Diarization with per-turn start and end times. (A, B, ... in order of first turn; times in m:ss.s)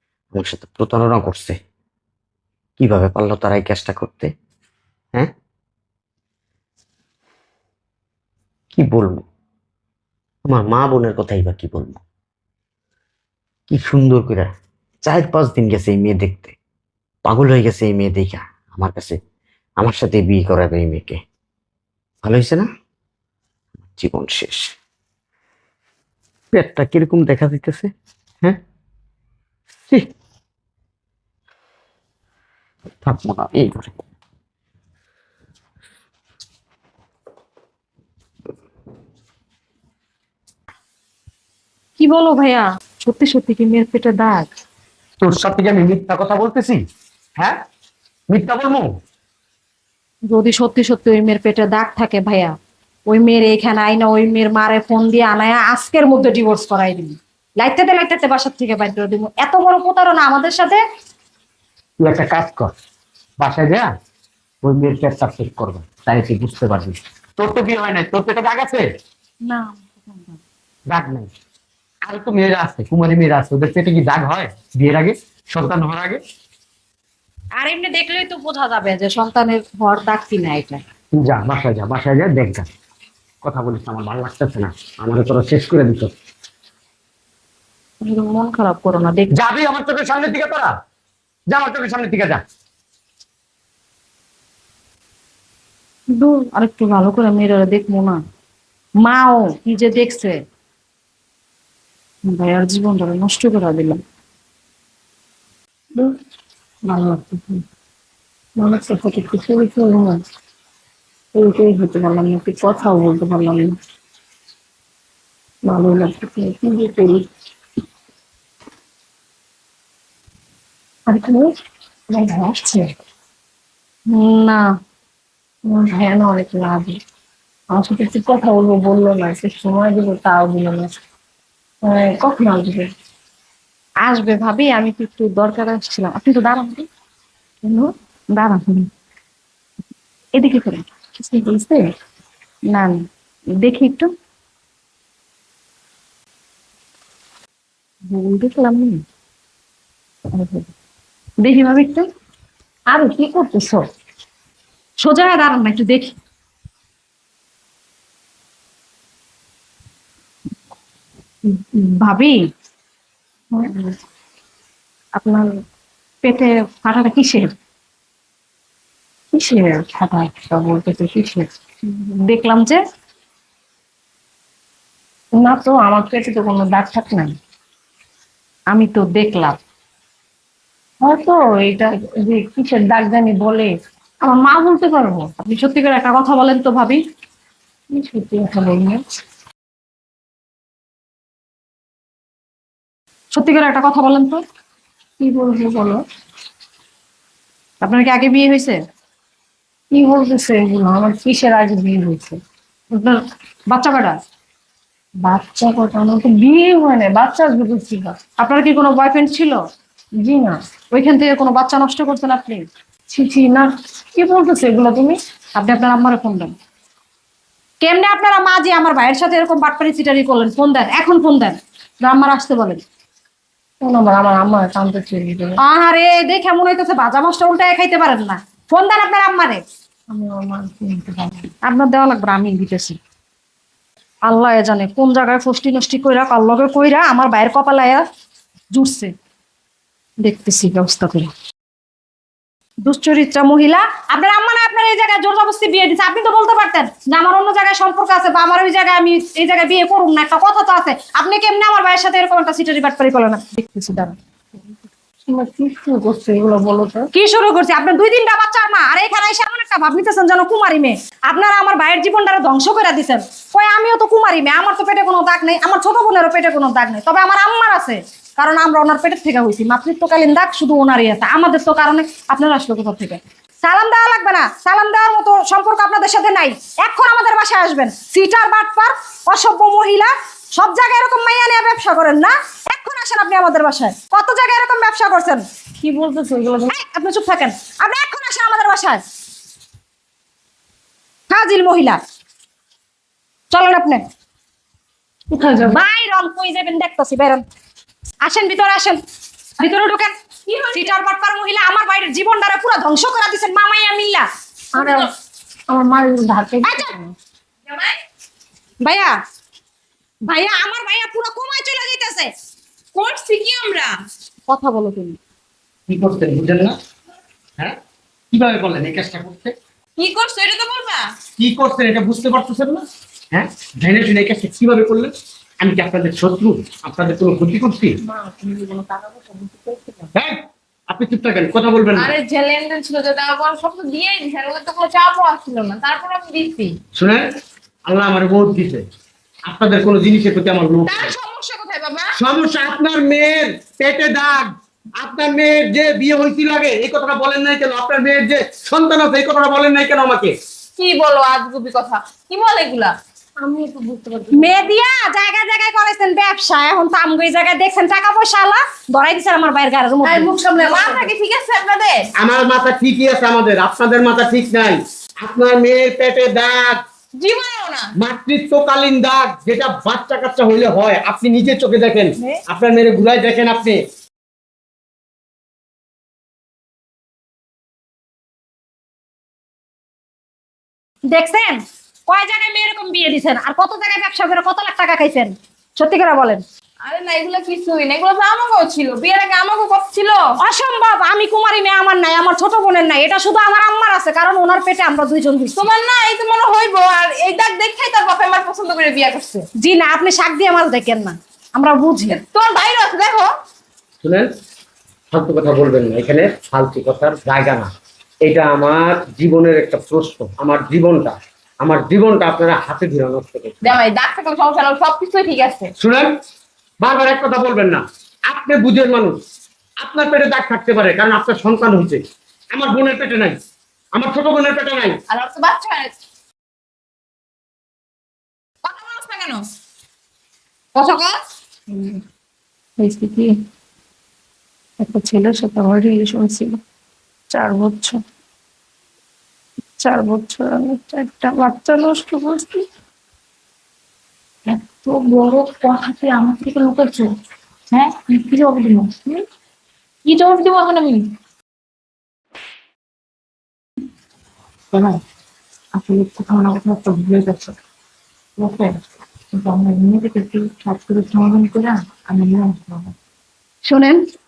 0:00.3-0:01.5 A
0:02.8-0:04.3 A
0:08.7-0:09.2 A
0:10.5-0:12.0 A
0:13.7-0:14.5 A
0:15.0-0:16.5 A
0:17.2-0:19.1 A
0:19.8-0:21.2 A
0:22.2-0:22.6 A
0:23.8-0:24.7 A
0:26.5-0:27.9 A
0:33.0-0:33.9 A
0:42.0-0:44.5 B
0:45.2-0:46.8 C
0:48.3-0:48.9 C
0:50.3-0:52.5 B
0:53.1-1:00.8 B
1:02.0-1:02.7 C
1:03.4-1:03.9 C
1:04.6-1:08.8 C
1:09.4-1:10.4 B
1:10.9-1:11.3 C
1:12.0-1:16.2 C
1:17.6-1:20.8 B
1:21.1-1:22.6 C
1:23.4-1:26.1 C
1:28.0-1:29.3 B
1:29.3-1:30.7 C
1:31.5-1:32.4 C
1:36.1-1:38.2 B
1:39.0-1:40.4 B
1:42.2-1:44.0 B
1:46.8-1:47.6 D
1:48.6-1:50.2 D
1:51.3-1:53.8 D
1:55.6-1:57.2 D
2:01.1-2:01.4 D
2:02.1-2:02.8 D
2:04.1-2:04.6 B
2:05.7-2:07.0 D
2:07.7-2:11.0 D
2:11.8-2:12.9 D
2:14.0-2:16.8 B
2:17.6-2:18.9 B
2:20.3-2:20.8 B
2:21.3-2:21.8 D
2:22.7-2:23.0 B
2:23.6-2:24.1 B
2:28.1-2:29.0 B
2:30.4-2:30.6 B
2:31.4-2:32.0 B
2:32.9-2:33.8 D
2:35.0-2:36.2 B
2:41.5-2:42.4 B
2:45.2-2:45.5 B
2:46.2-2:47.5 B
2:49.3-2:51.5 D
2:51.9-2:52.8 B
2:55.4-2:57.3 D
2:58.7-2:59.6 B
3:01.0-3:03.7 D
3:04.2-3:07.0 B
3:07.9-3:09.0 D
3:13.3-3:14.4 B
3:15.2-3:16.0 D
3:17.8-3:18.7 B
3:19.9-3:22.4 D
3:23.7-3:24.1 B
3:25.2-3:28.2 D
3:28.4-3:29.6 B
3:30.2-3:30.6 D
3:30.9-3:32.6 B
3:33.1-3:35.2 D
3:35.6-3:36.5 B
3:37.8-3:42.8 B
3:43.8-3:45.5 D
3:45.6-3:49.6 B
3:50.1-3:51.5 D
3:51.7-3:53.0 B
3:54.2-3:58.0 B
3:58.7-3:59.1 B
4:00.2-4:01.3 B
4:02.8-4:14.1 B
4:15.3-4:17.0 D
4:17.1-4:45.4 B
4:45.8-4:46.7 D
4:46.7-4:49.0 B
4:51.3-4:52.0 B
4:53.5-4:54.0 B
4:55.3-4:55.8 D
4:55.6-4:57.4 B
4:58.2-4:59.0 B
4:59.6-5:00.1 B
5:00.5-5:00.9 E
5:00.7-5:04.2 B
5:04.7-5:05.1 D
5:04.8-5:05.1 E
5:05.7-5:07.1 D
5:07.7-5:08.0 E
5:08.8-5:09.1 B
5:10.3-5:12.3 B
5:12.9-5:13.9 E
5:14.5-5:15.2 B
5:15.9-5:16.7 C
5:18.3-5:19.5 C
5:20.0-5:21.0 E
5:21.4-5:28.0 C
5:28.0-5:30.1 D
5:30.9-5:32.1 C
5:31.9-5:36.8 E
5:37.0-5:37.2 C
5:37.8-5:38.8 C
5:39.5-5:41.1 C
5:40.8-5:42.2 E
5:42.2-5:50.3 C
5:50.8-5:52.9 E
5:53.4-5:54.7 D
5:54.3-6:01.1 B
6:00.0-6:02.1 E
6:02.2-6:06.8 C
6:07.2-6:07.9 E
6:08.0-6:13.8 C
6:21.1-6:26.4 B
6:26.8-6:30.2 E
6:30.4-6:35.6 B
6:35.6-6:39.4 E
6:39.6-6:42.2 B
6:42.1-6:43.3 E
6:44.0-6:44.3 C
6:45.1-6:47.7 C
6:48.2-6:53.6 C
6:53.6-6:55.7 E
6:55.8-6:56.1 C
6:56.8-6:59.2 C
6:59.8-7:02.0 C
7:02.5-7:03.4 C
7:03.9-7:05.0 C
7:05.1-7:05.9 E
7:08.6-7:09.4 E
7:10.7-7:11.2 E
7:11.7-7:12.0 D
7:12.8-7:13.3 D
7:14.8-7:16.6 D
7:17.3-7:18.0 D
7:19.8-7:22.6 D
7:24.5-7:27.1 D
7:27.7-7:29.2 D
7:30.1-7:31.0 D
7:34.7-7:35.0 D
7:35.7-7:37.5 D
7:38.4-7:38.8 D
7:39.3-7:42.9 D
7:43.6-7:44.0 B